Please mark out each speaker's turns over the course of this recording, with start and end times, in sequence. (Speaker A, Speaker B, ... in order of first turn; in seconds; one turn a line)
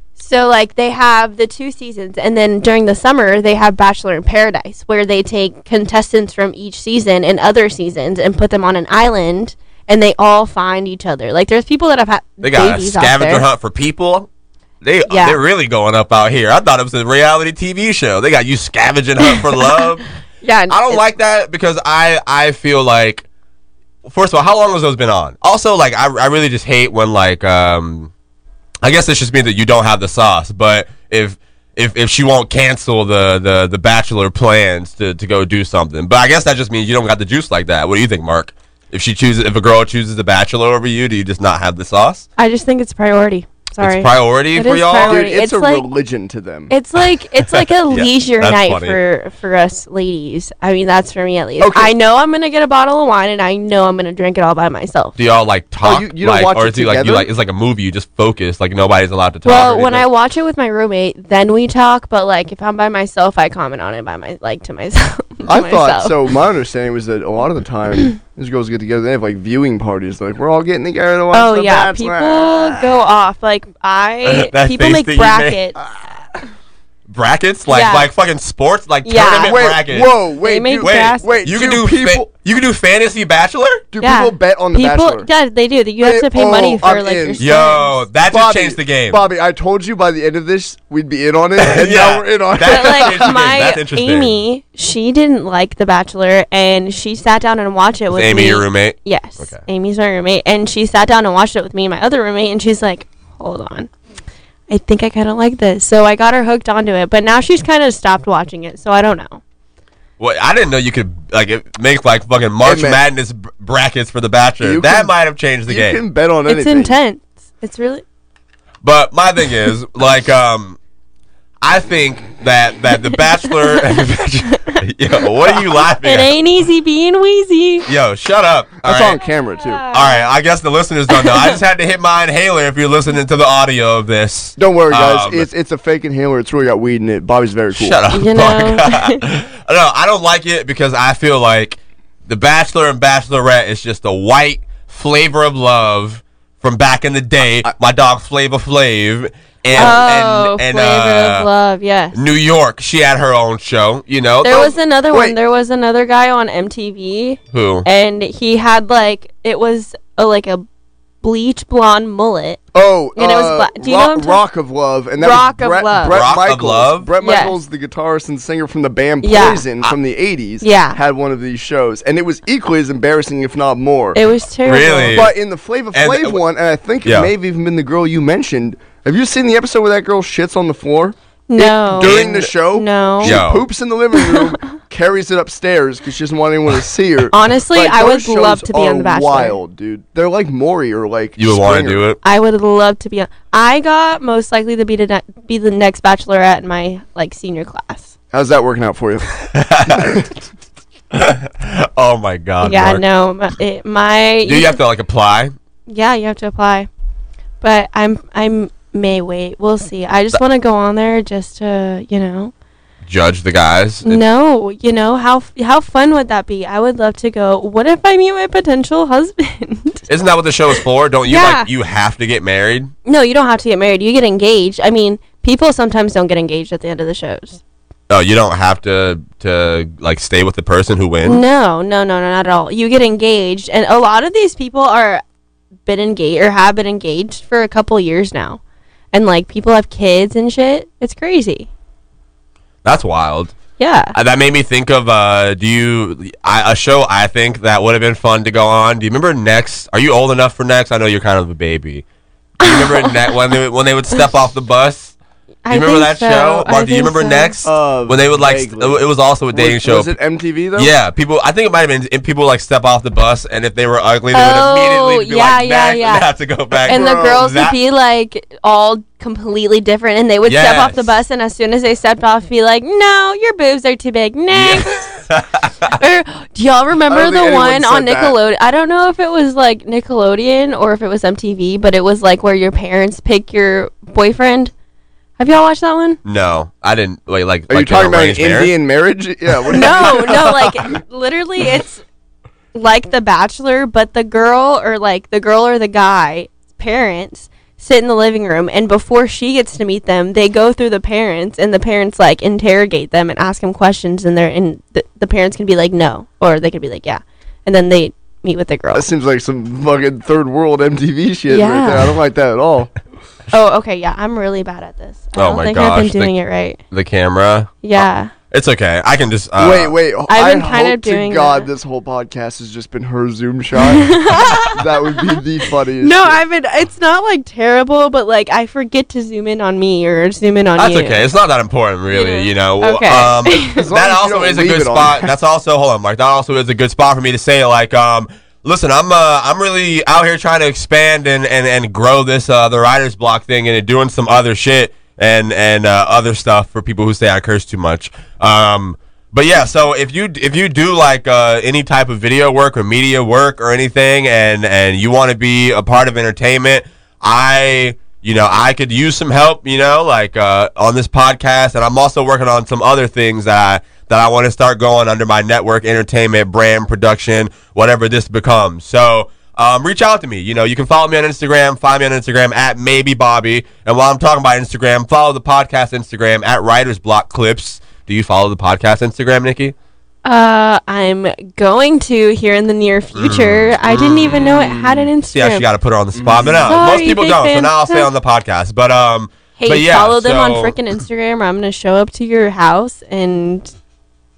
Speaker A: 0.2-13.4
Speaker B: 12.4-14.3
Speaker B: 14.8-20.0
Speaker A: 15.1-15.4
Speaker A: 20.4-21.0
Speaker B: 20.7-23.3
Speaker B: 24.1-28.1
Speaker B: 28.8-42.3
Speaker A: 42.4-45.9
Speaker B: 43.8-45.2
Speaker C: 45.0-46.7
Speaker A: 46.7-55.2
Speaker B: 47.5-49.0
Speaker C: 51.6-51.9
Speaker B: 55.2-60.0
Speaker C: 55.8-57.3
Speaker A: 59.5-66.2
Speaker C: 65.5-72.9
Speaker A: 71.3-75.8
Speaker B: 74.2-75.6
Speaker C: 75.8-76.2
Speaker B: 77.1-80.1
Speaker A: 77.7-78.1
Speaker A: 79.0-79.8
Speaker C: 79.4-82.3
Speaker A: 80.3-81.3
Speaker B: 80.8-83.8
Speaker C: 83.9-85.3
Speaker A: 84.0-88.0
Speaker C: 86.0-87.7
Speaker B: 87.4-89.2
Speaker C: 88.2-93.4
Speaker B: 91.6-94.4
Speaker A: 92.6-103.9
Speaker B: 98.1-99.6
Speaker A: 104.7-109.4
Speaker B: 110.2-116.0
Speaker C: 112.6-113.0
Speaker C: 114.6-115.1
Speaker C: 115.7-117.0
Speaker A: 116.5-118.0
Speaker B: 118.8-120.8
Speaker B: 121.6-126.3
Speaker A: 123.6-124.8
Speaker A: 125.5-127.9
Speaker B: 127.9-129.2
Speaker C: 128.8-129.8
Speaker A: 129.6-130.3
Speaker B: 129.9-135.5
Speaker A: 131.1-131.6
Speaker C: 134.6-138.0
Speaker B: 137.7-151.5
Speaker A: 138.1-139.2
Speaker C: 149.7-150.0
Speaker A: 149.8-152.2
Speaker B: 152.1-154.7
Speaker A: 154.4-160.7
Speaker C: 154.5-155.4
Speaker B: 157.5-157.9
Speaker A: 161.2-162.6
Speaker C: 162.7-174.2
Speaker A: 163.2-164.4
Speaker A: 165.2-166.2
Speaker B: 166.1-167.1
Speaker A: 167.2-167.6
Speaker A: 169.2-169.7
Speaker A: 170.6-171.0
Speaker A: 174.2-175.2
Speaker B: 174.7-175.3
Speaker C: 175.1-192.1
Speaker B: 175.9-176.4
Speaker B: 177.1-177.3
Speaker A: 181.5-183.4
Speaker B: 182.0-182.5
Speaker B: 183.2-183.7
Speaker A: 184.2-184.6
Speaker A: 187.3-189.6
Speaker B: 191.4-192.2
Speaker A: 192.2-198.1
Speaker C: 198.3-199.3
Speaker B: 199.4-200.2
Speaker C: 199.8-200.4
Speaker B: 201.1-203.0
Speaker A: 202.6-204.8
Speaker B: 204.4-205.5
Speaker A: 205.9-206.9
Speaker A: 207.6-212.5
Speaker B: 213.1-214.2
Speaker A: 214.1-220.1
Speaker B: 220.1-222.9
Speaker A: 221.3-221.7
Speaker A: 223.1-227.6
Speaker B: 228.1-231.4
Speaker A: 231.2-235.2
Speaker A: 235.9-238.6
Speaker A: 239.1-241.7
Speaker B: 242.8-243.6
Speaker A: 243.8-244.2
Speaker B: 244.1-252.0
Speaker B: 252.6-255.2
Speaker A: 252.6-253.1
Speaker A: 255.7-257.5
Speaker B: 255.7-260.1
Speaker C: 257.6-260.9
Speaker B: 260.8-267.8
Speaker A: 264.3-266.3
Speaker A: 266.8-275.2
Speaker C: 266.9-267.4
Speaker B: 270.5-271.1
Speaker B: 274.5-275.9
Speaker A: 275.9-284.7
Speaker C: 277.1-278.4
Speaker A: 285.4-286.2
Speaker B: 286.2-288.7
Speaker C: 287.7-290.8
Speaker A: 289.7-292.0
Speaker A: 292.7-309.1
Speaker C: 308.9-312.9
Speaker A: 311.5-312.1
Speaker A: 313.5-316.8
Speaker B: 315.4-316.3
Speaker B: 316.9-317.8
Speaker A: 317.8-318.3
Speaker B: 318.5-319.9
Speaker C: 319.6-326.4
Speaker A: 320.3-321.7
Speaker A: 323.9-325.4
Speaker A: 326.0-331.3
Speaker B: 330.8-379.8
Speaker A: 332.1-333.9
Speaker C: 333.6-335.3
Speaker A: 380.2-385.7
Speaker B: 383.2-384.5
Speaker C: 384.5-385.1
Speaker B: 385.3-390.8
Speaker C: 386.1-386.8
Speaker A: 386.7-388.1
Speaker A: 389.6-393.7